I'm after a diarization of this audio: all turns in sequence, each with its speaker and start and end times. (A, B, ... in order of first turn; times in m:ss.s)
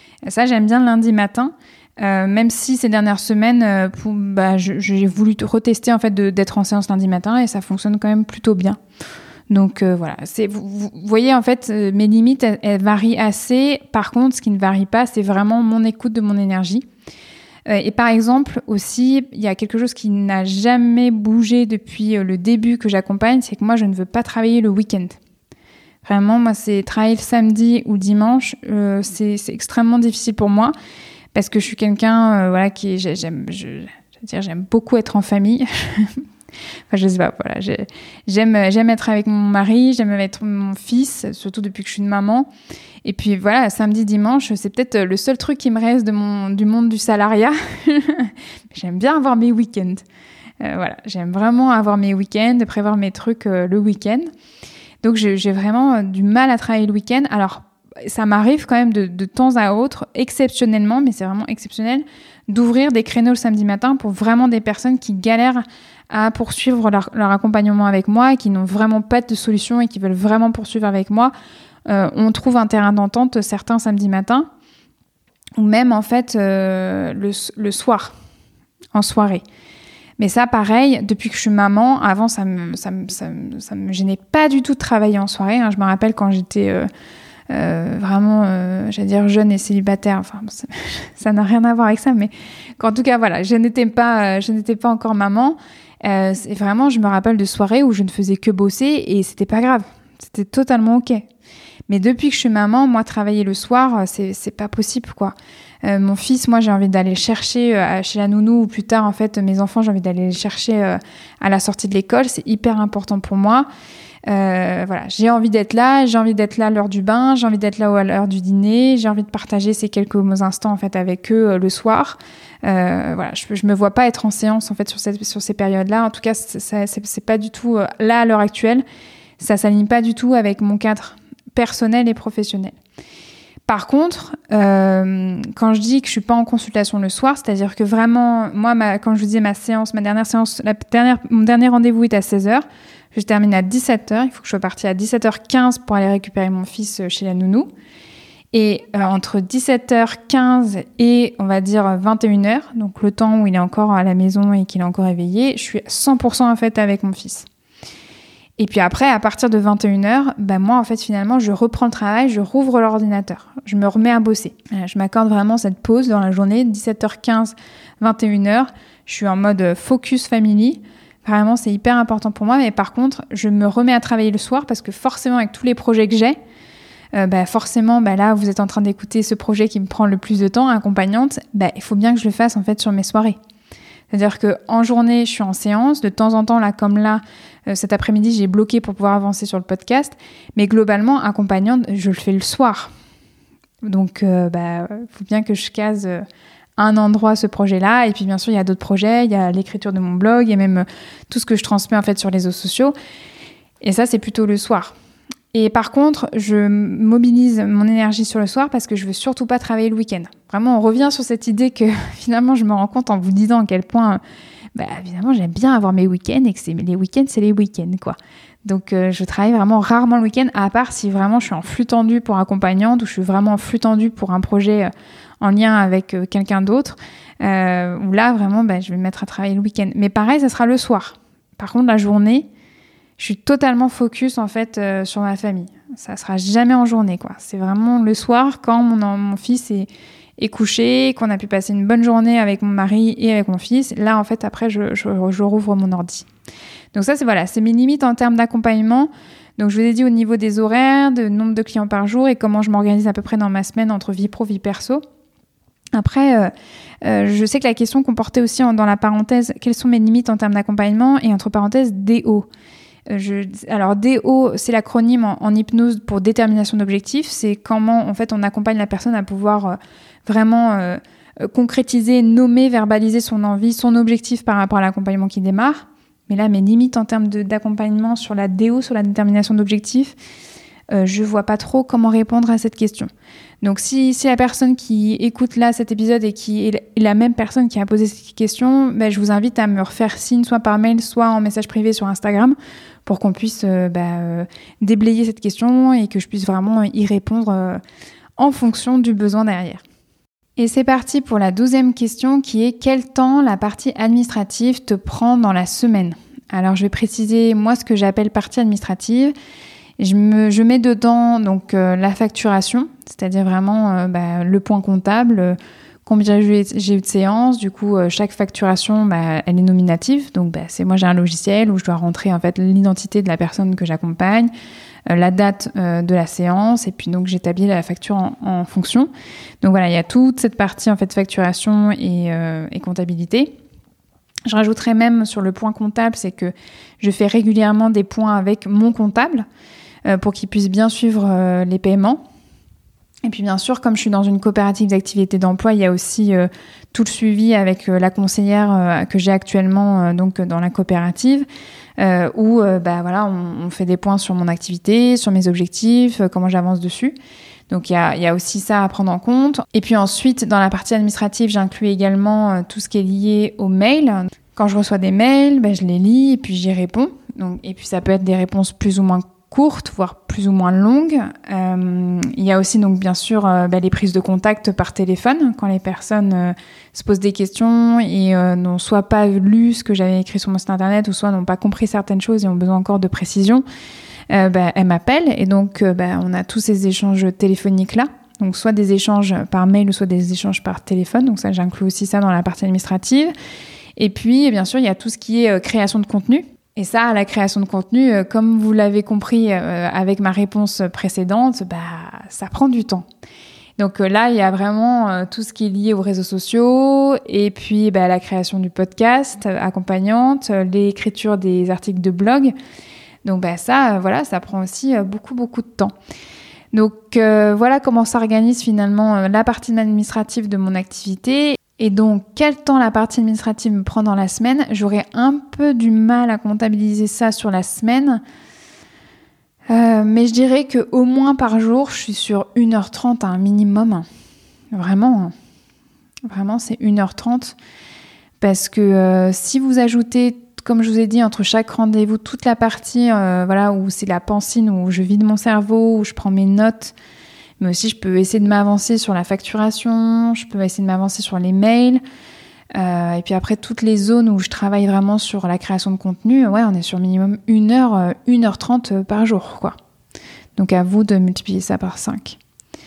0:00.3-0:08.8 A
0:09.5-0:16.9 A
0:17.7-0:25.2 A
0:26.0-0:30.7 A
0:31.4-0:36.2 A
0:36.9-0:42.5 A
0:43.0-0:50.0 A
0:50.6-0:54.3 A
0:55.0-1:11.3 A
1:11.9-1:14.5 A
1:15.6-1:18.1 A
1:18.9-1:19.4 A
1:20.2-1:26.9 A
1:27.5-1:41.3 A
1:41.9-1:53.7 A
1:54.3-2:08.8 A
2:09.4-2:12.8 A
2:13.7-2:27.7 A
2:28.5-2:37.5 A
2:38.6-2:56.4 A
2:57.2-3:03.4 A
3:04.1-3:12.9 A
3:13.8-3:16.2 A
3:16.8-3:23.0 A
3:23.8-3:24.9 A
3:25.5-3:34.2 A
3:34.8-3:52.5 A
3:53.2-4:06.3 A
4:06.9-4:15.0 A
4:15.9-4:16.5 A
4:17.0-4:22.5 A
4:23.1-4:40.2 A
4:40.9-4:43.1 A
4:43.6-4:57.8 A
4:58.4-4:59.8 A
5:00.6-5:09.3 A
5:10.0-5:24.5 A
5:25.1-5:29.1 A
5:29.6-5:33.5 A
5:34.5-5:39.5 A
5:40.1-5:42.2 A
5:43.2-5:51.5 A
5:52.0-5:57.2 A
5:57.7-6:23.6 A
6:24.3-6:33.3 A
6:34.0-6:43.1 A
6:43.8-6:52.5 A
6:53.2-6:55.9 A
6:56.7-7:08.2 A
7:09.7-7:14.1 A
7:14.7-7:15.3 A
7:16.3-7:17.6 A
7:18.4-7:26.9 A
7:27.6-7:32.0 A
7:32.7-7:39.8 A
7:40.6-7:42.4 A